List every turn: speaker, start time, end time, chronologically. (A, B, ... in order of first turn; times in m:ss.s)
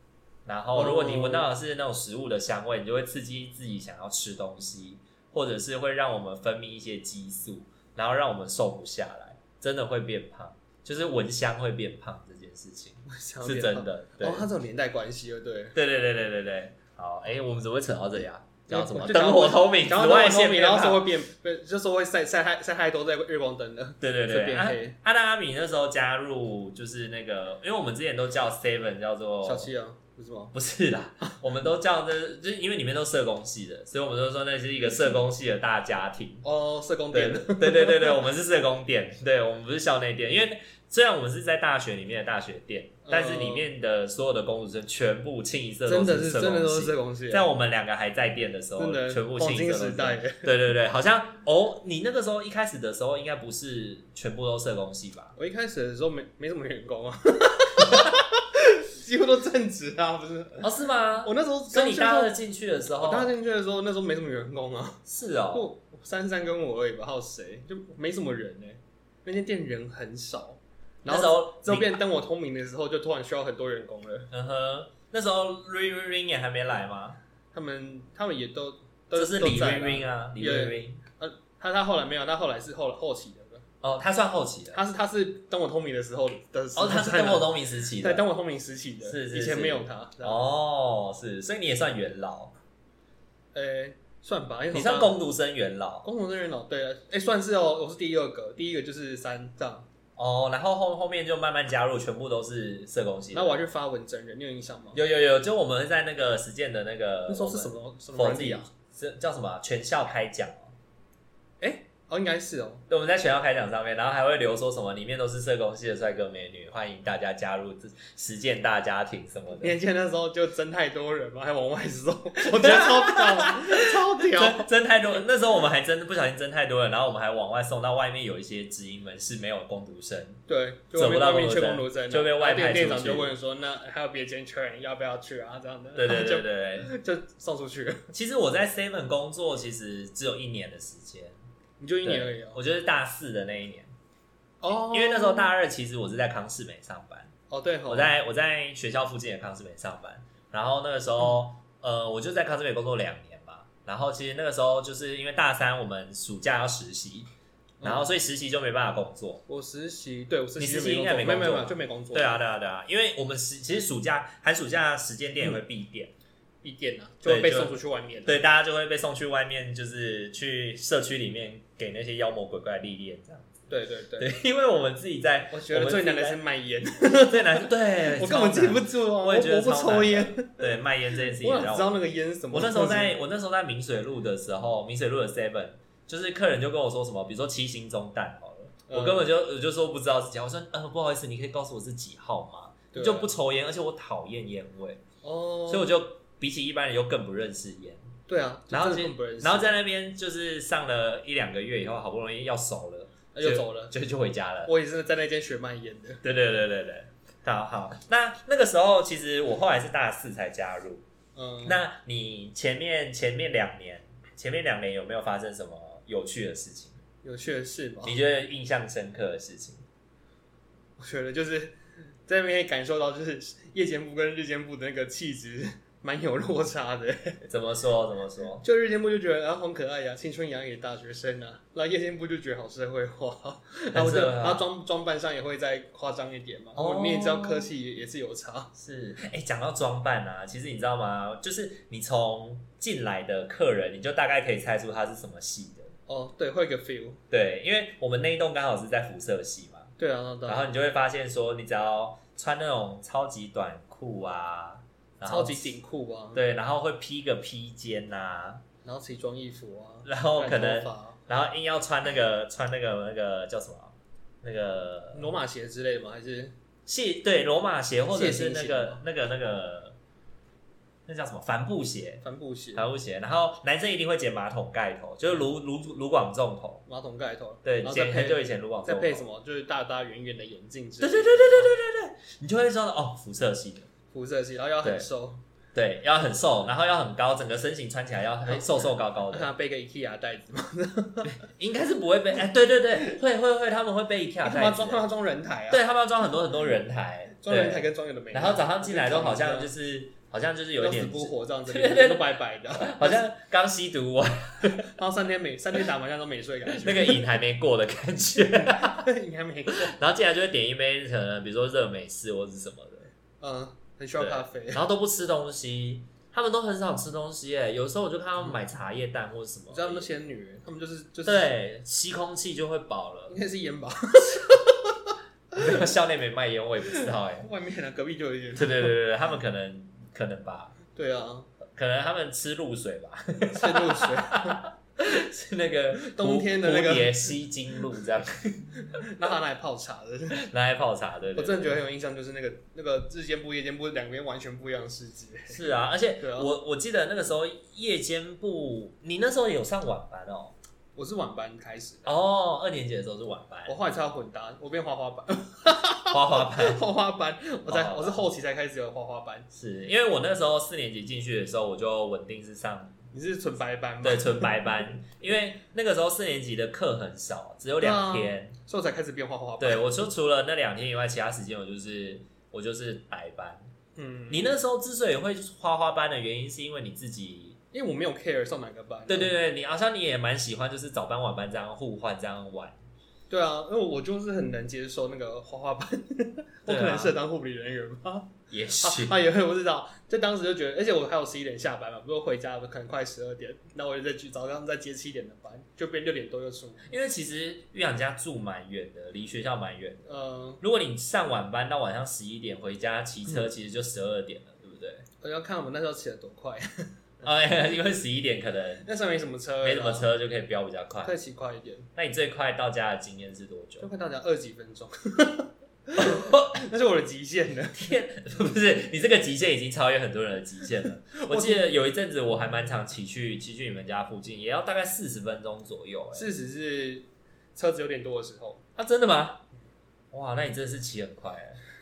0:00.4-0:14.5 A
0:00.7-0:01.5 B
0:13.1-0:15.7 B
0:15.7-0:21.1 A
0:18.7-0:25.0 B
0:24.0-0:29.7 A
0:29.4-0:30.5 B
0:30.5-0:36.4 A
0:34.8-0:35.2 B
0:36.4-0:38.2 B
0:37.1-0:55.3 A
0:43.0-0:43.7 B
0:45.8-0:47.4 B
0:48.8-0:50.5 B
0:55.4-1:00.7 B
1:00.6-1:03.3 A
1:01.2-1:02.4 B
1:03.0-1:14.3 B
1:05.0-1:05.7 A
1:11.1-1:11.9 A
1:14.3-1:17.2 A
1:17.5-1:23.6 B
1:19.1-1:21.0 A
1:23.8-1:24.8 A
1:24.7-1:30.5 B
1:26.8-1:28.2 A
1:29.0-1:32.5 A
1:33.5-1:35.2 B
1:34.7-1:36.0 A
1:36.0-1:39.8 B
1:40.2-1:43.6 A
1:43.3-1:45.0 B
1:44.9-1:50.7 A
1:47.3-1:48.7 B
1:51.6-1:52.8 B
1:52.9-1:59.8 A
1:59.6-2:04.7 B
2:02.4-2:10.4 A
2:10.5-2:18.0 B
2:10.9-2:13.3 A
2:16.0-2:16.9 A
2:18.1-2:21.4 A
2:21.8-2:22.6 B
2:22.0-2:23.9 A
2:24.6-2:25.5 B
2:24.9-2:27.3 A
2:27.5-2:28.1 B
2:27.9-2:37.3 A
2:37.8-2:38.1 B
2:37.8-2:39.4 A
2:39.5-2:42.4 B
2:40.6-2:46.1 A
2:46.6-2:48.4 B
2:47.2-2:56.4 A
2:53.7-2:54.3 B
2:55.5-3:00.7 B
2:57.3-3:02.0 A
3:01.3-3:03.2 B
3:02.5-3:15.0 A
3:08.9-3:09.3 B
3:12.9-3:13.3 B
3:15.2-3:15.9 B
3:15.7-3:18.0 A
3:18.3-3:19.7 B
3:18.7-3:24.7 A
3:23.3-3:23.9 B
3:24.6-3:26.2 B
3:26.2-3:31.0 A
3:31.3-3:31.8 B
3:31.6-3:37.0 A
3:37.2-3:38.2 B
3:38.0-3:39.8 A
3:41.0-3:47.4 B
3:47.5-3:48.6 A
3:48.6-3:58.7 B
3:53.9-3:54.6 A
3:56.8-3:57.7 A
3:58.8-4:05.9 A
4:06.1-4:07.2 B
4:07.3-4:09.9 A
4:10.0-4:10.6 B
4:10.4-4:15.8 A
4:15.2-4:16.4 B
4:16.3-4:18.6 A
4:18.8-4:21.2 B
4:20.0-4:25.3 A
4:25.1-4:26.5 B
4:26.8-4:30.0 A
4:28.1-4:29.0 B
4:31.1-4:36.8 A
4:32.2-4:32.8 B
4:36.9-4:41.7 B
4:37.6-4:39.2 A
4:41.0-4:43.9 A
4:44.1-4:45.4 B
4:44.8-4:45.1 A
4:45.7-4:49.5 A
4:48.4-4:51.3 B
4:51.2-4:55.0 A
4:54.4-4:55.8 B
4:55.7-5:04.9 A
4:57.4-4:59.7 B
5:00.8-5:03.2 B
5:04.9-5:07.2 B
5:06.7-5:09.0 A
5:08.6-5:10.0 B
5:09.7-5:13.1 A
5:13.4-5:14.8 B
5:14.2-5:20.1 A
5:19.7-5:21.5 B
5:21.2-5:23.4 A
5:23.3-5:25.8 B
5:25.5-5:27.5 A
5:26.9-5:28.9 B
5:28.6-5:30.8 A
5:30.9-5:31.5 B
5:31.7-5:38.7 A
5:33.5-5:34.6 B
5:36.0-5:37.4 B
5:38.8-5:40.4 B
5:40.3-5:41.8 A
5:41.4-5:45.6 B
5:45.5-5:50.5 A
5:46.2-5:46.5 B
5:51.0-5:52.0 B
5:52.0-5:53.8 A
5:53.6-5:59.5 B
5:56.1-5:56.8 A
5:57.7-5:58.2 A
5:59.5-6:03.0 A
6:03.1-6:04.7 B
6:04.0-6:08.5 A
6:07.8-6:09.9 B
6:09.6-6:13.6 A
6:14.0-6:14.5 B
6:14.3-6:17.6 A
6:17.7-6:19.3 B
6:19.1-6:22.8 A
6:23.3-6:36.9 B
6:26.7-6:27.2 A
6:28.5-6:29.2 A
6:36.9-6:40.1 A
6:40.1-6:40.6 B
6:40.6-6:45.0 A
6:45.2-6:46.9 B
6:47.2-6:48.9 A
6:48.8-6:50.1 B
6:49.6-6:51.2 A
6:51.0-6:51.9 B
6:51.9-6:53.9 A
6:53.8-6:57.8 B
6:55.9-6:56.6 A
6:57.7-7:06.3 A
7:01.3-7:01.7 B
7:06.1-7:08.6 B
7:08.8-7:09.4 A
7:10.1-7:11.6 A